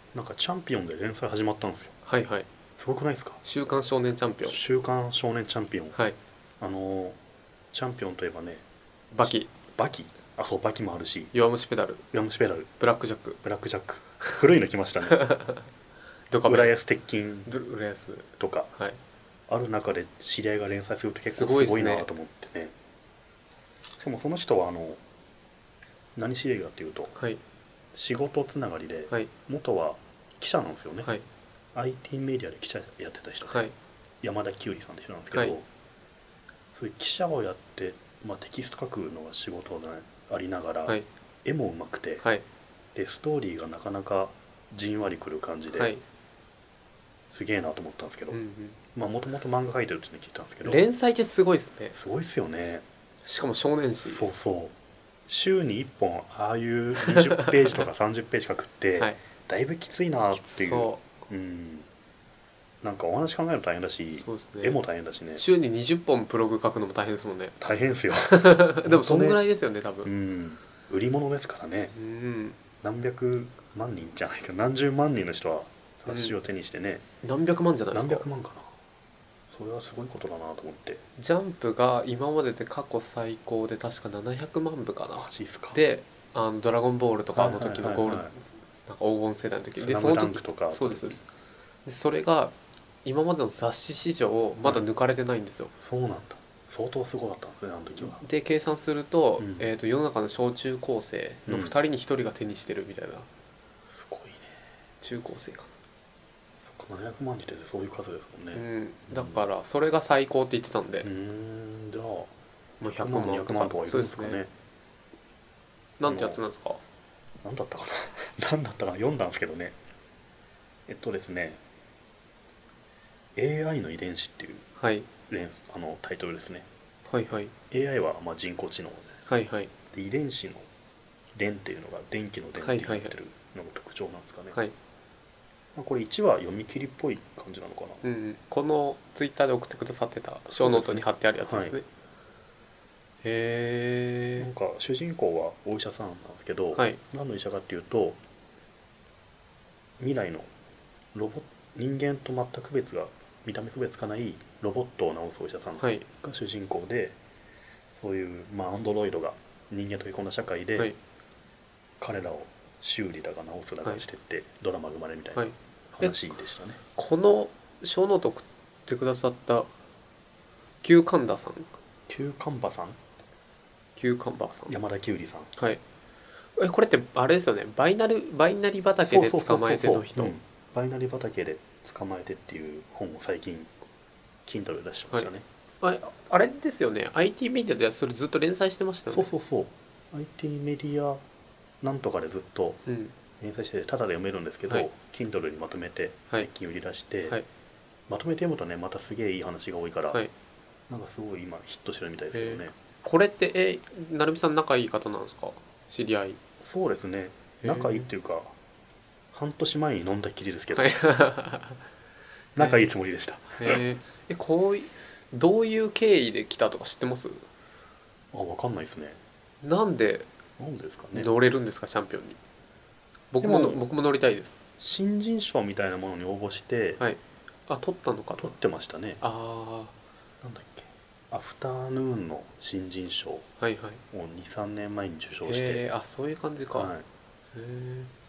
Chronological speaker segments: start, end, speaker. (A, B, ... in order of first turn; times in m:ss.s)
0:00.1-0:01.9 A
0:02.1-0:02.5 B
0:02.8-0:03.4 A
0:03.4-0:04.6 B
0:04.4-0:06.0 A
0:06.6-0:07.2 A
0:07.7-0:08.6 A
0:09.1-0:09.5 B
0:09.2-0:11.3 A
0:11.3-0:12.0 B
0:12.1-0:12.7 A
0:12.8-0:13.4 B
0:13.4-0:15.3 A
0:15.1-0:15.6 B
0:16.3-0:16.7 B
0:16.5-0:17.5 A
0:17.5-0:19.0 B
0:18.4-0:18.7 A
0:19.5-0:22.7 A
0:21.3-0:22.1 B
0:24.0-0:25.0 A
0:26.2-0:27.1 A
0:27.9-0:31.1 A
0:31.7-0:33.7 A
0:33.4-0:33.7 B
0:34.2-0:35.7 A
0:35.3-0:35.6 B
0:36.7-0:42.3 A
0:43.0-0:45.9 A
0:45.7-0:46.0 B
0:47.3-0:48.4 A
0:48.3-0:48.8 B
0:48.9-0:50.9 A
0:50.6-0:52.0 B
0:51.9-0:52.8 A
0:53.2-0:54.3 B
0:54.0-0:54.7 A
0:55.3-1:01.9 A
1:00.4-1:01.2 B
1:02.8-1:05.4 A
1:04.2-1:04.8 B
1:05.4-1:07.6 B
1:07.6-1:09.4 A
1:08.3-1:10.1 B
1:10.0-1:11.9 A
1:11.9-1:12.6 B
1:12.8-1:17.0 A
1:16.1-1:16.3 B
1:17.2-1:18.2 B
1:17.9-1:18.7 A
1:19.5-1:21.0 A
1:21.2-1:31.2 B
1:25.1-1:25.8 A
1:27.3-1:28.3 A
1:29.8-1:31.2 A
1:31.8-1:35.7 B
1:34.6-1:34.9 A
1:35.8-1:38.2 A
1:38.0-1:43.3 B
1:39.4-1:39.7 A
1:41.5-1:41.8 A
1:43.9-1:44.5 A
1:45.0-1:45.7 B
1:46.6-1:49.4 A
1:48.5-1:51.1 B
1:51.0-1:54.5 A
1:52.8-1:54.4 B
1:56.0-1:56.8 B
1:56.0-1:56.4 A
1:57.4-1:59.8 A
2:00.9-2:01.6 A
2:03.4-2:04.6 A
2:04.8-2:05.1 B
2:05.3-2:06.7 A
2:07.1-2:07.5 B
2:07.7-2:09.2 A
2:09.2-2:09.7 B
2:09.8-2:10.7 A
2:11.3-2:14.6 A
2:12.6-2:13.1 B
2:15.7-2:18.0 A
2:18.0-2:21.8 B
2:20.5-2:21.8 A
2:23.2-2:24.5 B
2:24.4-2:28.2 A
2:26.7-2:27.0 B
2:30.0-2:30.5 A
2:31.1-2:37.2 A
2:35.8-2:36.0 B
2:37.9-2:40.9 A
2:42.0-2:46.8 A
2:45.4-2:46.2 B
2:46.9-2:49.7 B
2:50.8-2:51.7 B
2:52.1-2:53.0 A
2:54.0-2:54.7 B
2:54.7-2:55.5 A
2:56.6-3:00.3 B
2:59.1-3:03.7 A
3:04.4-3:05.4 A
3:05.8-3:09.3 B
3:09.1-3:11.2 A
3:11.8-3:12.8 A
3:12.8-3:13.1 B
3:13.4-3:17.4 A
3:18.1-3:20.2 A
3:20.9-3:22.7 A
3:22.3-3:26.4 B
3:26.6-3:28.5 A
3:27.6-3:28.1 B
3:29.3-3:31.0 A
3:30.7-3:31.8 B
3:32.6-3:33.8 A
3:32.6-3:32.9 B
3:33.6-3:37.4 B
3:38.3-3:39.2 A
3:39.6-3:40.3 B
3:40.6-3:41.3 A
3:41.1-3:42.4 B
3:43.3-3:44.6 B
3:43.4-3:43.8 A
3:44.8-3:47.0 A
3:47.0-3:48.5 B
3:48.4-3:49.2 A
3:49.2-3:49.9 B
3:50.4-3:53.4 A
3:53.6-3:54.0 B
3:54.1-3:55.8 A
3:55.4-3:56.9 B
3:56.7-3:57.0 A
3:57.5-3:58.1 B